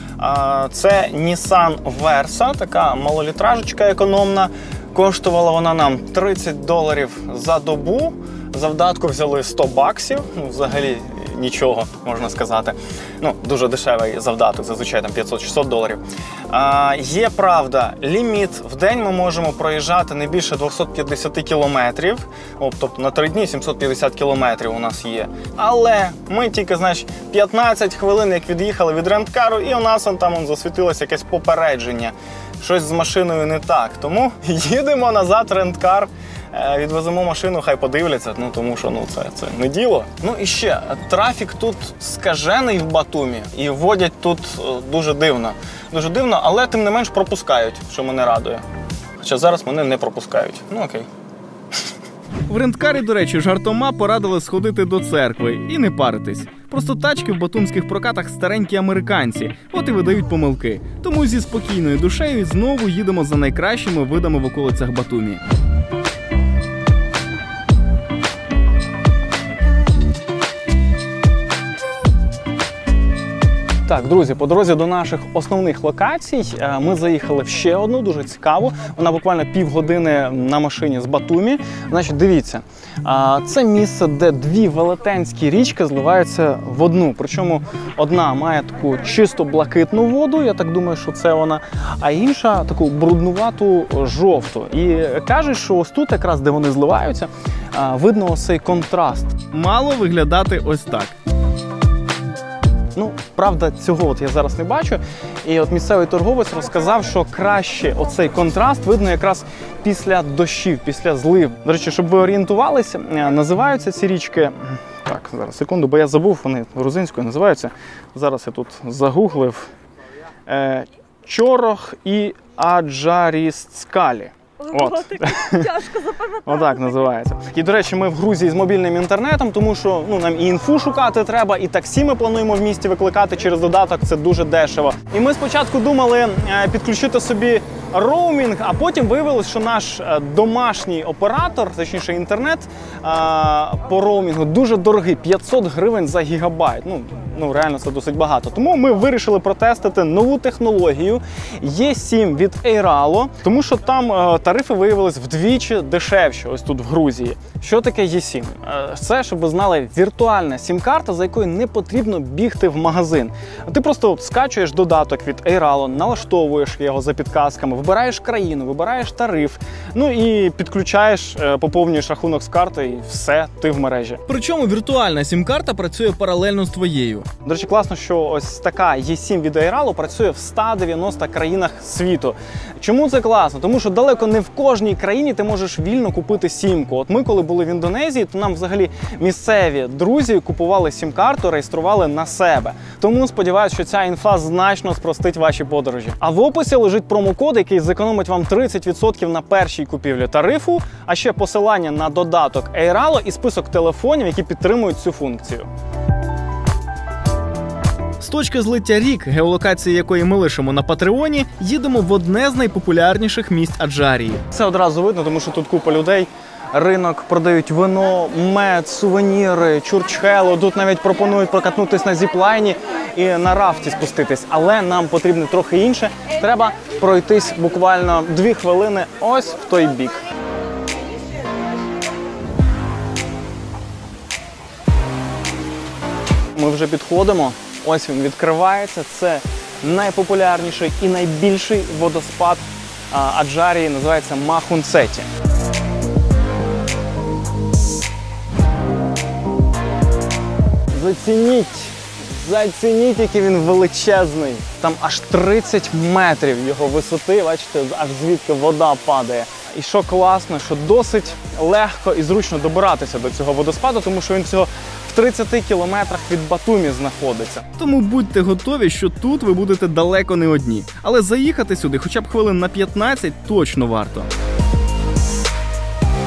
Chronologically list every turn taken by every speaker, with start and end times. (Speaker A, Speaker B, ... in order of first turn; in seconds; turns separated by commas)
Speaker A: 0.2-48.6, Speaker A: 49.2-51.1, Speaker B: 52.5-65.4, Speaker A: 73.8-99.5, Speaker B: 99.4-101.1, Speaker A: 102.9-119.7, Speaker A: 120.5-125.7, Speaker C: 124.6-127.0, Speaker A: 126.5-174.2, Speaker B: 174.3-177.3, Speaker A: 177.4-205.7, Speaker B: 208.2-214.4, Speaker A: 214.5-230.2, Speaker A: 236.6-245.3, Speaker A: 250.9-267.6, Speaker B: 267.8-274.3